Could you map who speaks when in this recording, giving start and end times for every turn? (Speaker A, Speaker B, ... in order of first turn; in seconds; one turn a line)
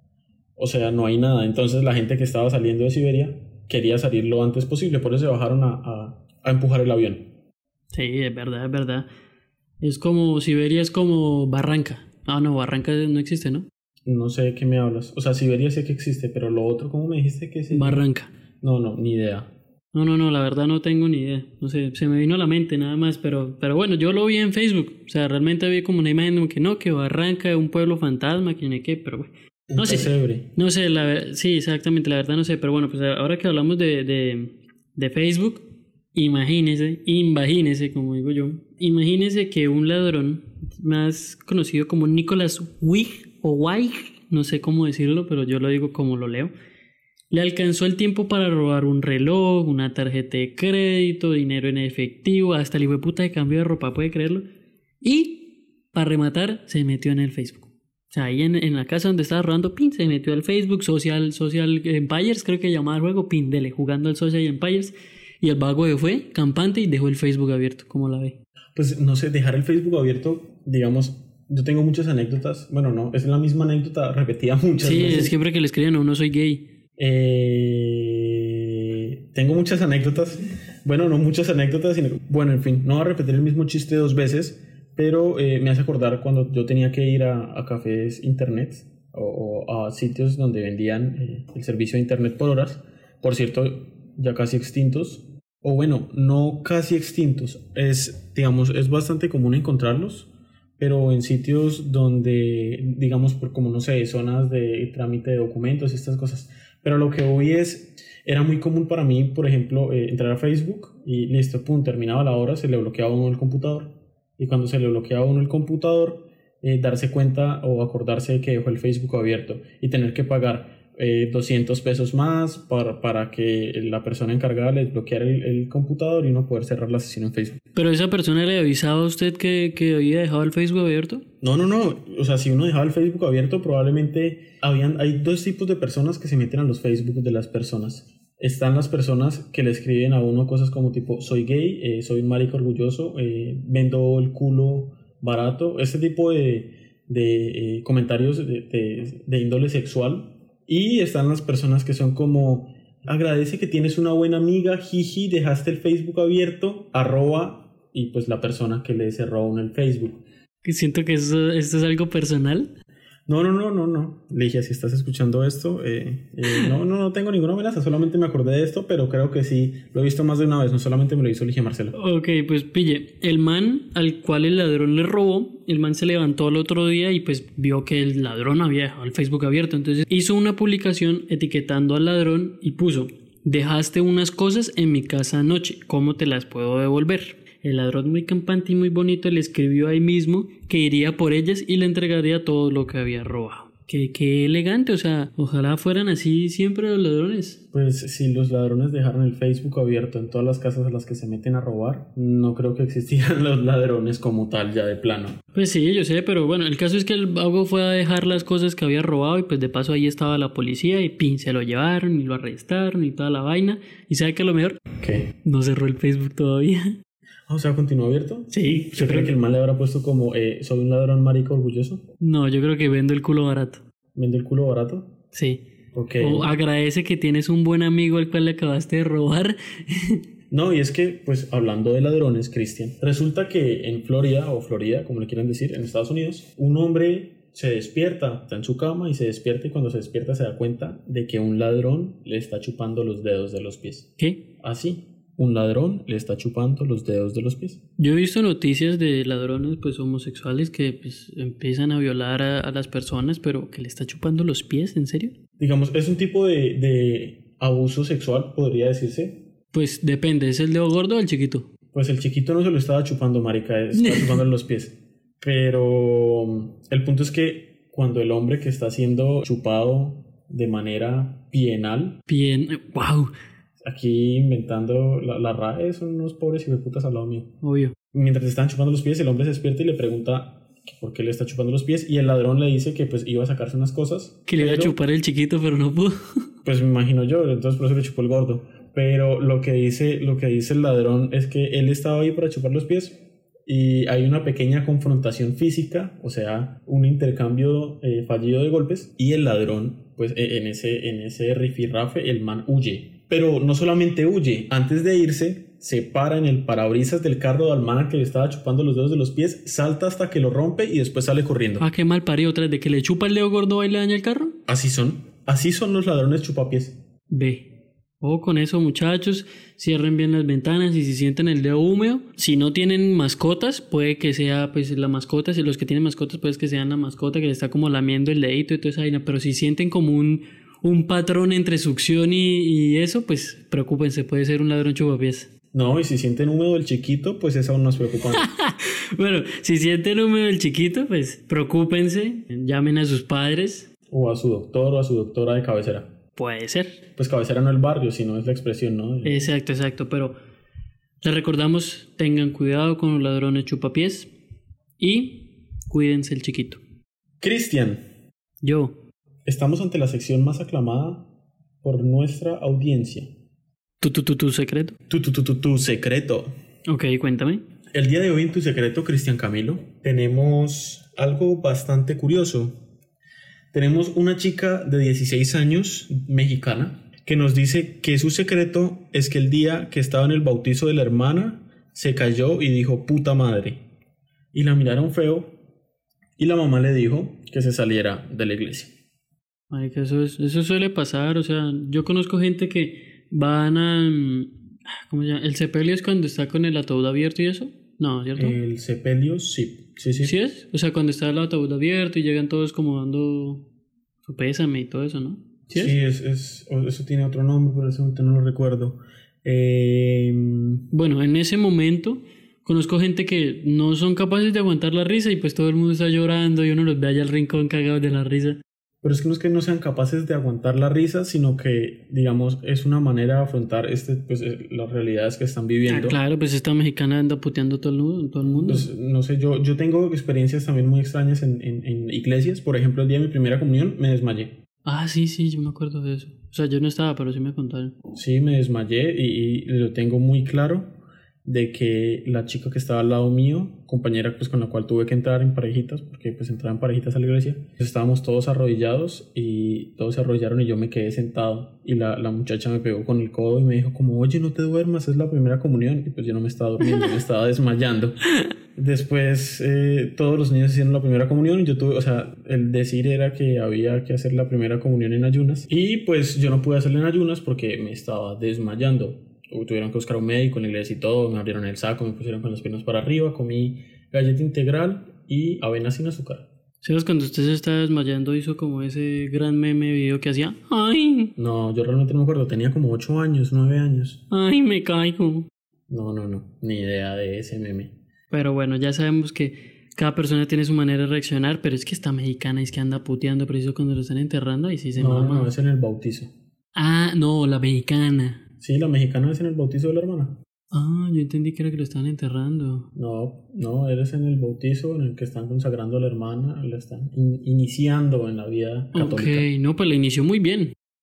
Speaker A: 0.6-7.3
Speaker B: 7.9-9.1
Speaker B: 9.8-13.7
Speaker A: 14.0-18.0
Speaker B: 17.7-18.3
Speaker A: 18.6-19.5
Speaker B: 19.9-46.5
Speaker A: 29.7-30.5
Speaker B: 47.3-54.4
Speaker B: 55.0-68.3
Speaker A: 68.7-75.3
Speaker B: 74.8-76.6
Speaker A: 77.0-127.6
Speaker B: 127.7-131.2
Speaker A: 131.4-160.2
Speaker B: 160.6-162.7
Speaker A: 163.3-171.9
Speaker B: 171.9-197.6
Speaker A: 197.7-205.4
Speaker B: 205.5-214.8
Speaker A: 215.0-215.3
Speaker B: 215.4-217.0
Speaker A: 217.5-222.0
Speaker B: 218.5-219.4
Speaker B: 222.2-223.8
Speaker A: 224.1-225.1
Speaker B: 225.3-225.6
Speaker A: 225.9-226.6
Speaker B: 226.2-230.2
Speaker A: 230.5-247.8
Speaker B: 248.0-255.3
Speaker A: 255.6-259.4
Speaker B: 259.7-261.7
Speaker A: 261.9-272.2
Speaker B: 263.9-264.4
Speaker B: 272.3-273.3
Speaker A: 273.8-277.5
Speaker B: 277.6-277.9
Speaker A: 278.1-284.9
Speaker B: 284.4-286.1
Speaker A: 286.6-311.8
Speaker B: 311.8-314.6
Speaker A: 314.7-317.0
Speaker B: 317.3-317.7
Speaker B: 318.2-335.5
Speaker A: 335.7-338.4
Speaker B: 338.3-343.9
Speaker A: 344.1-346.1
Speaker B: 346.4-347.0
Speaker A: 347.1-349.5
Speaker B: 349.2-350.3
Speaker B: 351.2-354.3
Speaker B: 355.0-356.8
Speaker A: 357.4-358.0
Speaker B: 358.6-358.9
Speaker A: 359.4-361.3
Speaker A: 361.8-363.3
Speaker B: 364.0-364.9
Speaker A: 365.1-366.5
Speaker B: 366.9-367.6
Speaker A: 367.9-372.8
Speaker A: 373.7-383.8
Speaker A: 384.5-385.6
Speaker A: 386.4-388.9
Speaker B: 389.7-398.6
Speaker A: 398.4-400.3
Speaker B: 400.2-403.6
Speaker B: 404.2-405.9
Speaker A: 405.7-410.8
Speaker B: 410.9-418.6
Speaker A: 419.0-426.2
Speaker B: 425.9-428.9
Speaker A: 428.6-434.6
Speaker B: 434.8-437.9
Speaker A: 438.1-458.1
Speaker A: 458.8-476.5
Speaker B: 476.8-481.3
Speaker A: 481.4-484.2
Speaker B: 484.3-485.5
Speaker A: 485.9-487.9
Speaker B: 488.3-495.5
Speaker A: 495.0-496.3
Speaker B: 496.8-498.4
Speaker A: 498.6-500.4
Speaker B: 500.7-502.9
Speaker A: 502.9-509.4
Speaker B: 508.9-510.7